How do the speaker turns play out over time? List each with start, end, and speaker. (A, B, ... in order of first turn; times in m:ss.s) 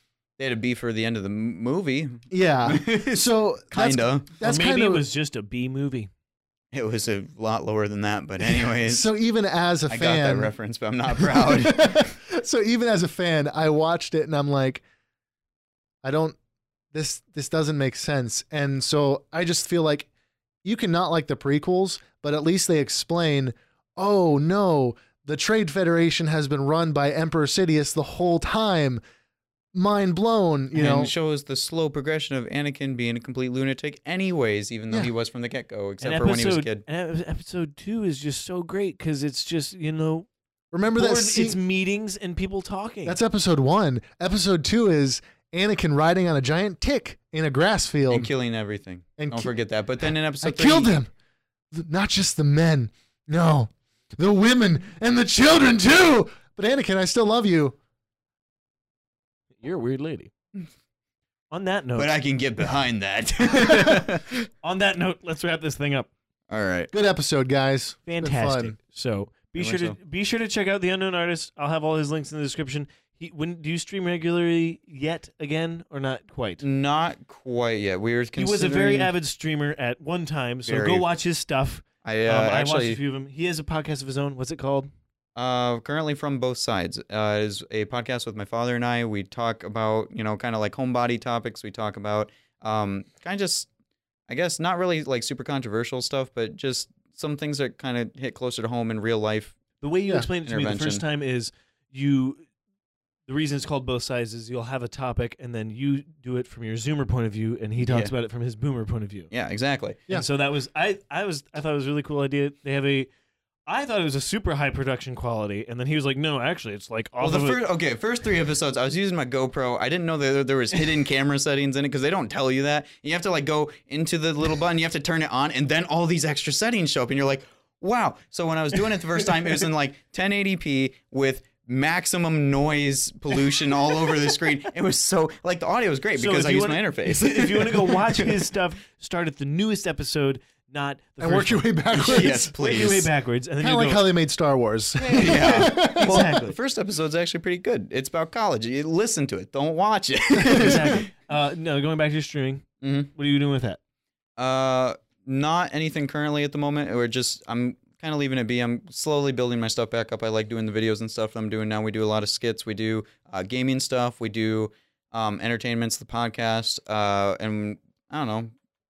0:00.4-0:04.3 A
0:02.3-0:05.0 B
0:04.4-0:06.1 C
0:06.7-0:09.0 A
0:08.5-0:10.5 B
0:09.9-0:12.1 A
0:11.1-0:14.8 B
0:16.0-0:16.4 B
0:16.9-0:20.1 B
0:20.6-0:29.0 B
0:29.7-0:31.1 B
0:30.7-0:36.8 A
0:36.0-0:40.3 C
0:40.7-0:41.6 B
0:41.0-0:43.2 C
0:43.0-0:48.3 B
0:48.1-0:50.9 A
0:49.2-0:49.5 B
0:50.4-0:51.1 B
0:51.7-0:57.7 B
0:59.6-1:00.3 C
1:01.5-1:02.2 C
1:02.0-1:04.5 A
1:03.6-1:04.0 B
1:04.6-1:06.1 C
1:06.5-1:06.9 A
1:06.9-1:08.7 B
1:08.1-1:16.6 C
1:09.6-1:10.0 A
1:16.6-1:19.1 A
1:18.4-1:24.9 C
1:20.6-1:21.0 A
1:22.0-1:23.0 A
1:25.4-1:33.7 A
1:34.3-1:39.6 A
1:39.8-1:42.4 C
1:40.4-1:41.0 A
1:43.3-1:49.3 C
1:47.8-1:48.1 A
1:49.3-1:50.0 A
1:50.1-1:53.1 C
1:53.7-1:57.6 C
1:57.2-2:18.4 A
2:16.2-2:24.1 C
2:21.2-2:22.5 B
2:21.9-2:23.1 A
2:23.6-2:26.2 B
2:25.0-2:26.6 C
2:25.2-2:31.1 A
2:30.4-2:33.8 C
2:32.8-2:33.1 A
2:34.4-2:48.5 A